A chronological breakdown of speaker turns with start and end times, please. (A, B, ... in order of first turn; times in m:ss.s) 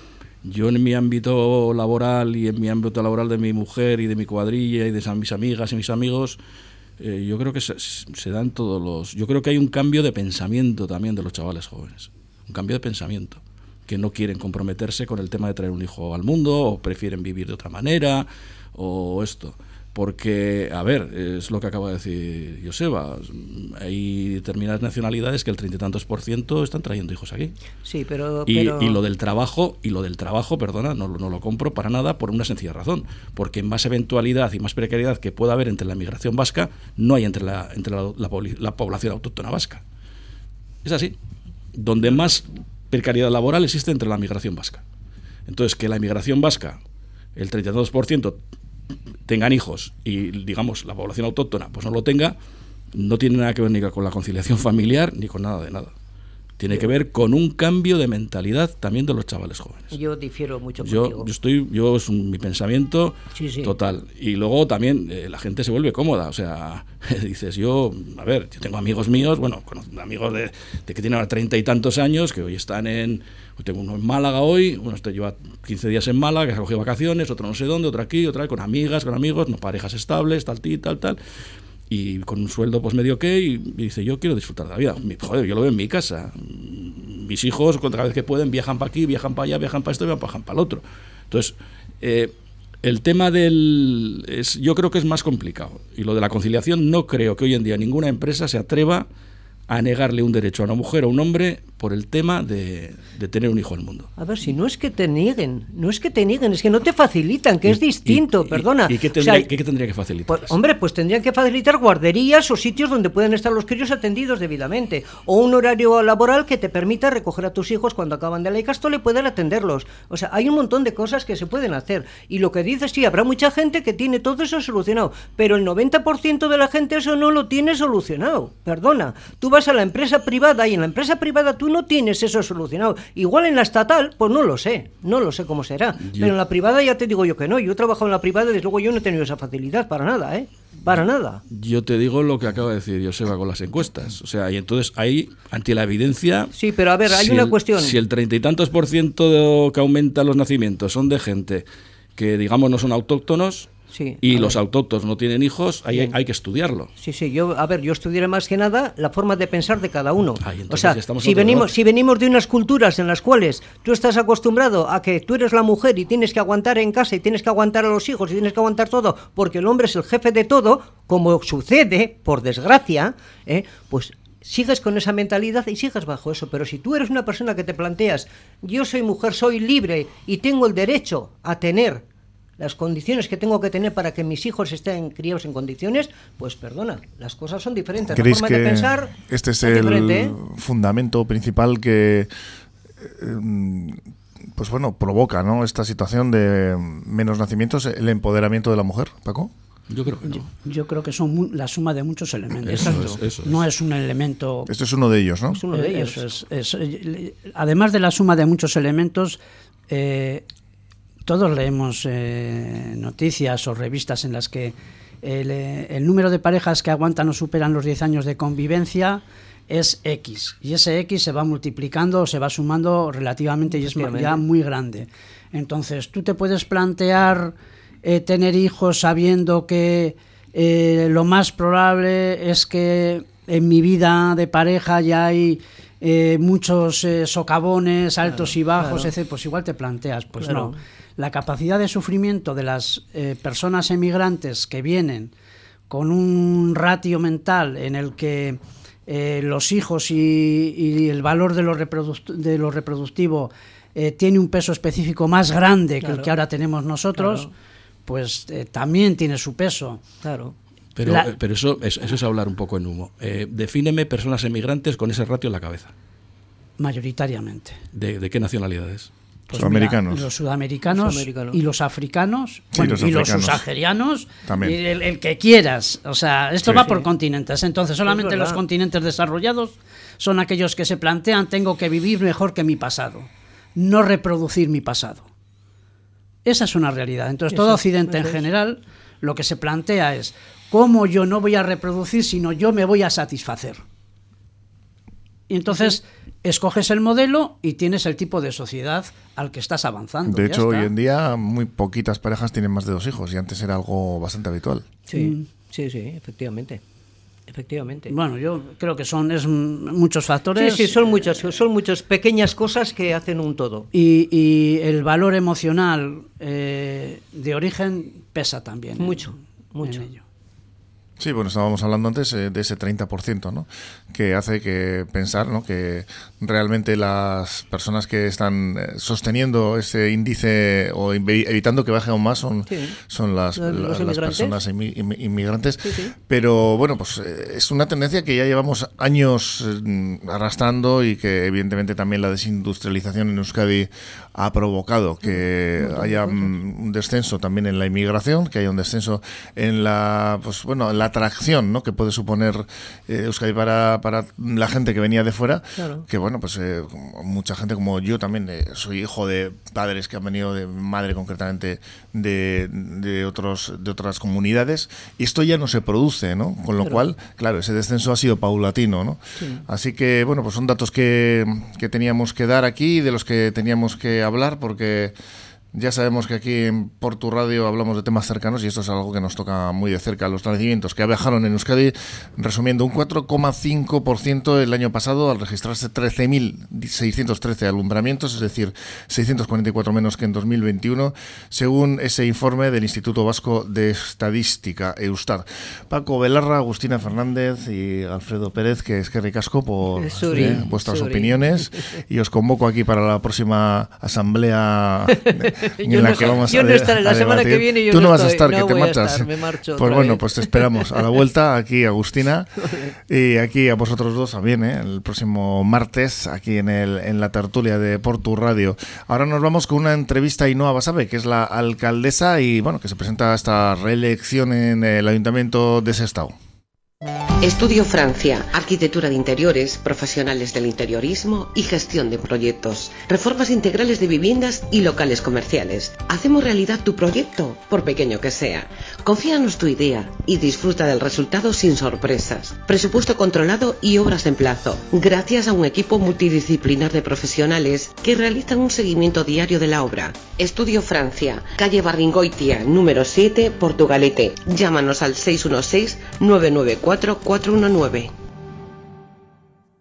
0:00.4-0:06.4 A
0:07.0-0:27.6 A
0:27.8-0:29.0 B
0:28.4-0:39.8 A
0:40.8-0:41.2 A
0:41.7-0:44.8 A
0:45.5-0:46.8 A
0:47.4-0:48.4 A
0:49.2-0:52.4 A
0:52.9-0:55.9 A
0:56.6-1:00.0 A
0:59.9-1:01.3 B
1:00.8-1:21.2 A
1:03.3-1:03.8 B
1:21.9-1:39.1 A
1:39.7-1:44.1 A
1:44.2-1:49.5 B
1:47.6-1:50.6 A
1:50.3-2:21.4 B
2:16.0-2:16.3 A
2:21.5-2:26.5 A
2:26.5-2:28.0 B
2:27.1-2:36.9 A
2:33.9-2:34.6 B
2:37.0-3:02.0 B
2:40.4-2:41.7 A
3:02.6-3:10.4 B
3:08.1-3:12.3 C
3:13.0-3:14.0 C
3:14.5-3:19.5 C
3:19.9-3:20.4 A
3:20.3-3:24.7 D
3:22.6-3:23.6 A
3:22.7-3:23.2 B
3:24.7-3:25.6 C
3:25.5-3:26.3 B
3:25.7-3:29.4 D
3:29.9-3:30.5 D
3:31.2-4:05.3 D
3:43.7-3:44.4 B
3:58.2-3:59.1 B
4:00.4-4:00.8 B
4:05.9-4:17.5 D
4:16.0-4:16.3 B
4:17.2-4:17.5 B
4:18.0-4:20.0 D
4:20.2-4:20.6 B
4:21.0-4:25.9 A
4:26.8-4:27.8 D
4:27.9-4:29.1 A
4:29.5-4:45.3 D
4:29.5-4:30.3 C
4:30.9-4:31.6 B
4:32.7-4:33.6 C
4:34.4-4:34.8 C
4:38.0-4:38.6 B
4:46.4-4:53.8 D
4:47.5-4:48.4 B
4:55.5-5:00.9 D
4:55.7-4:55.9 B
5:00.2-5:04.9 C
5:05.1-5:06.8 B
5:05.1-5:05.4 D
5:07.5-5:08.1 B
5:08.1-5:11.3 D
5:10.5-5:13.9 B
5:13.9-5:20.2 D
5:19.0-5:20.1 B
5:21.2-6:15.1 C
5:32.7-5:33.0 B
5:33.6-5:34.6 B
5:35.8-5:36.1 B
5:45.2-5:46.4 B
5:55.8-5:56.0 B
6:09.4-6:09.6 B
6:15.7-7:06.3 C
6:39.9-6:42.0 B
6:45.1-6:51.2 B
6:52.6-6:52.9 B
7:07.4-7:38.1 E